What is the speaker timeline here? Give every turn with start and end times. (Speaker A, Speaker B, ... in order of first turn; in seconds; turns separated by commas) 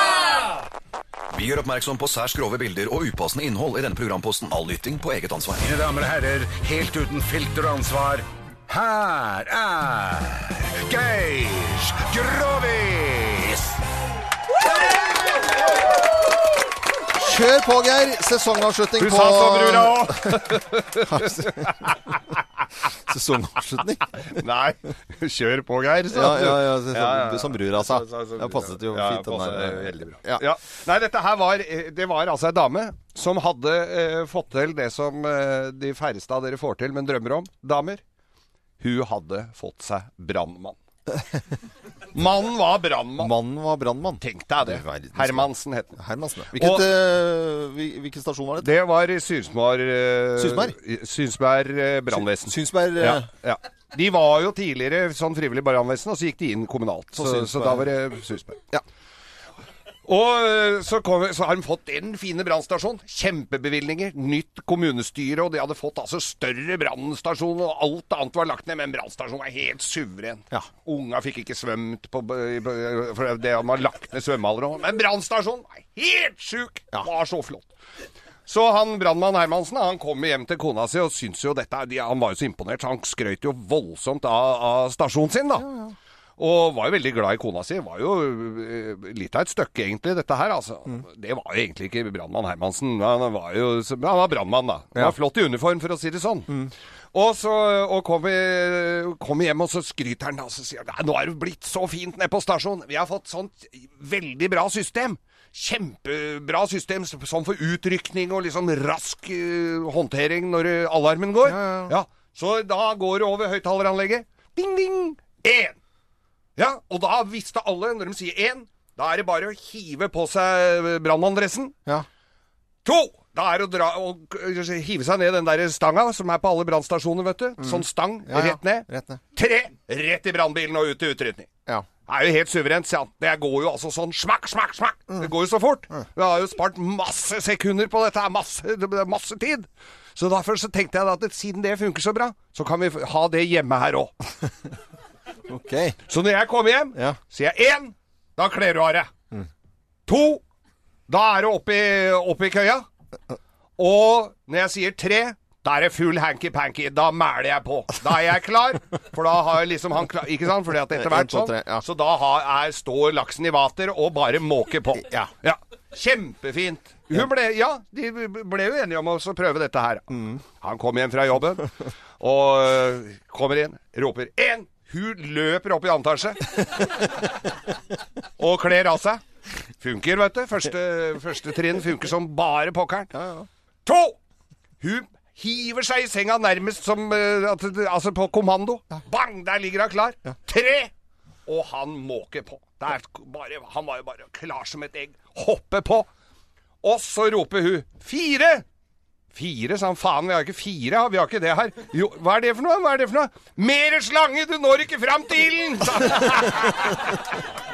Speaker A: 1.3-5.7, Speaker B: 5.6-13.8, Speaker C: 17.1-22.2, Speaker D: 19.0-21.9, Speaker C: 22.9-24.4, Speaker D: 24.4-38.0, Speaker C: 26.1-30.4, Speaker D: 38.8-40.8, Speaker D: 42.1-43.3, Speaker C: 43.2-48.7, Speaker D: 44.2-46.0, Speaker D: 46.5-46.9, Speaker D: 48.6-58.8, Speaker C: 50.4-50.8, Speaker C: 52.1-53.3, Speaker C: 57.1-57.9, Speaker D: 60.1-77.7, Speaker D: 78.5-85.7, Speaker C: 85.6-85.9, Speaker D: 86.4-96.6, Speaker D: 97.1-115.8, Speaker C: 111.4-111.9, Speaker D: 116.6-121.7, Speaker D: 122.8-131.5, Speaker C: 127.6-129.2, Speaker D: 132.1-144.3, Speaker C: 145.5-146.0, Speaker D: 146.1-149.1, Speaker D: 150.1-150.4, Speaker D: 151.1-152.8, Speaker D: 153.8-177.1, Speaker C: 161.0-161.8, Speaker D: 178.4-179.2, Speaker D: 179.8-183.1, Speaker C: 183.2-183.4, Speaker D: 183.8-184.2, Speaker D: 184.8-190.9, Speaker D: 191.4-196.1, Speaker D: 196.8-198.6, Speaker D: 199.3-207.2